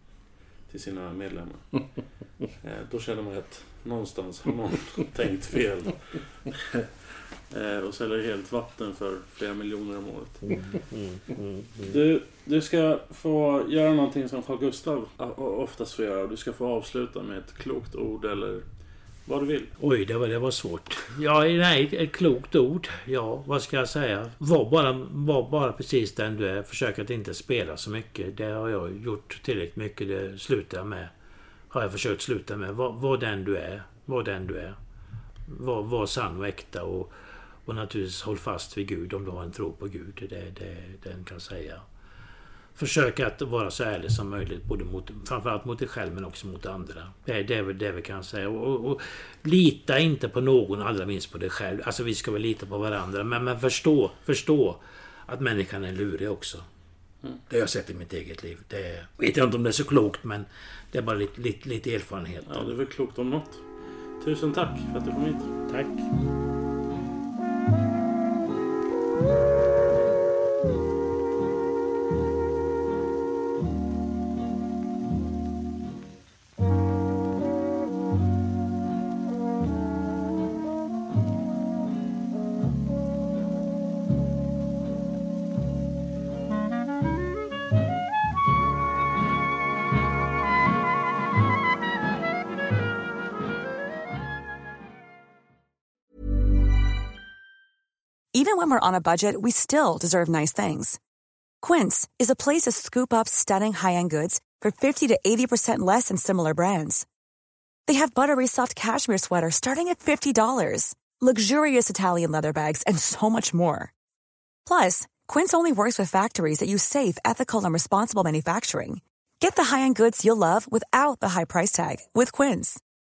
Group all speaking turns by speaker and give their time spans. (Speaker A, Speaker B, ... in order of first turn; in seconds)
Speaker A: 0.7-1.9, 2.6-6.2, 7.5-10.5, 11.9-18.6, 19.2-19.7, 62.5-63.6, 64.2-65.5
Speaker B: 10.6-11.9, 19.8-31.1, 31.7-34.8, 35.5-37.1, 37.6-41.8, 42.8-56.6, 57.5-62.7, 65.7-66.1
Speaker C: 98.3-101.0, 101.6-107.0, 107.9-113.9, 114.7-122.8